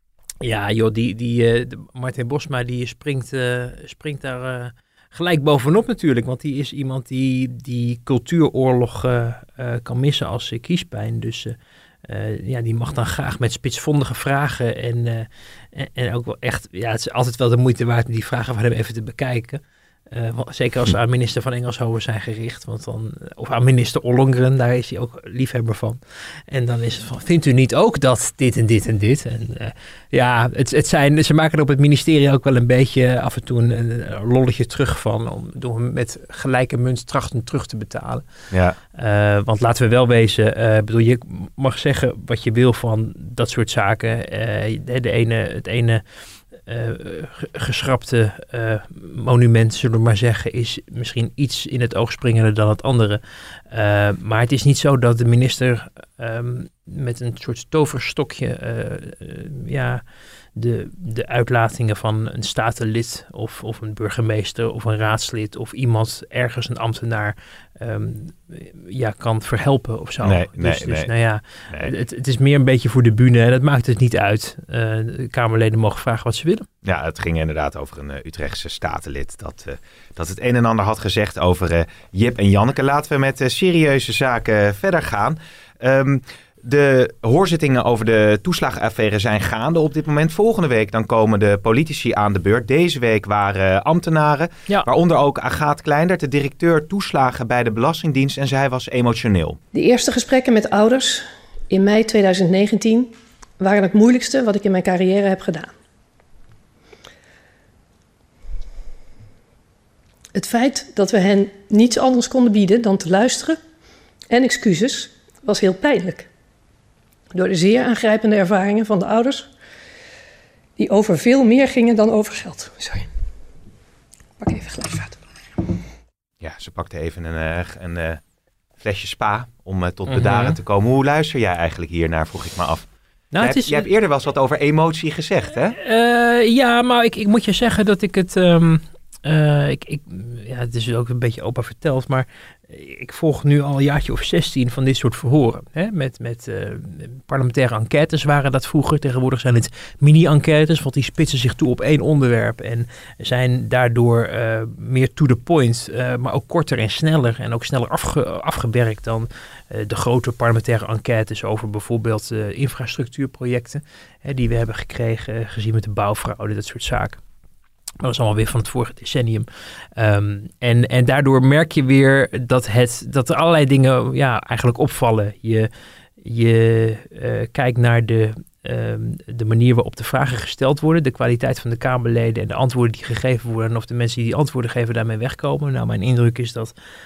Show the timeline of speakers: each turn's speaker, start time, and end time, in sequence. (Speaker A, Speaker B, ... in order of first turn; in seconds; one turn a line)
Speaker A: 0.4-11.5
Speaker A: 12.1-19.6
Speaker A: 20.1-26.0
Speaker A: 26.5-38.2
Speaker B: 38.5-38.8
Speaker A: 39.0-46.0
Speaker A: 46.6-53.2
Speaker A: 53.7-60.0
Speaker A: 60.5-76.7
Speaker B: 70.2-71.1
Speaker B: 76.8-99.6
Speaker C: 99.7-105.7
Speaker C: 110.3-113.6
Speaker C: 114.3-116.3
Speaker C: 117.3-119.5
Speaker C: 120.8-123.1
Speaker C: 124.4-125.2
Speaker B: 126.4-128.2
Speaker B: 128.8-132.9
Speaker A: 130.1-130.6
Speaker A: 133.3-133.9
Speaker B: 133.4-135.8
Speaker A: 135.8-167.2
Speaker A: 168.0-169.4
Speaker A: 170.0-175.7
Speaker A: 176.2-186.7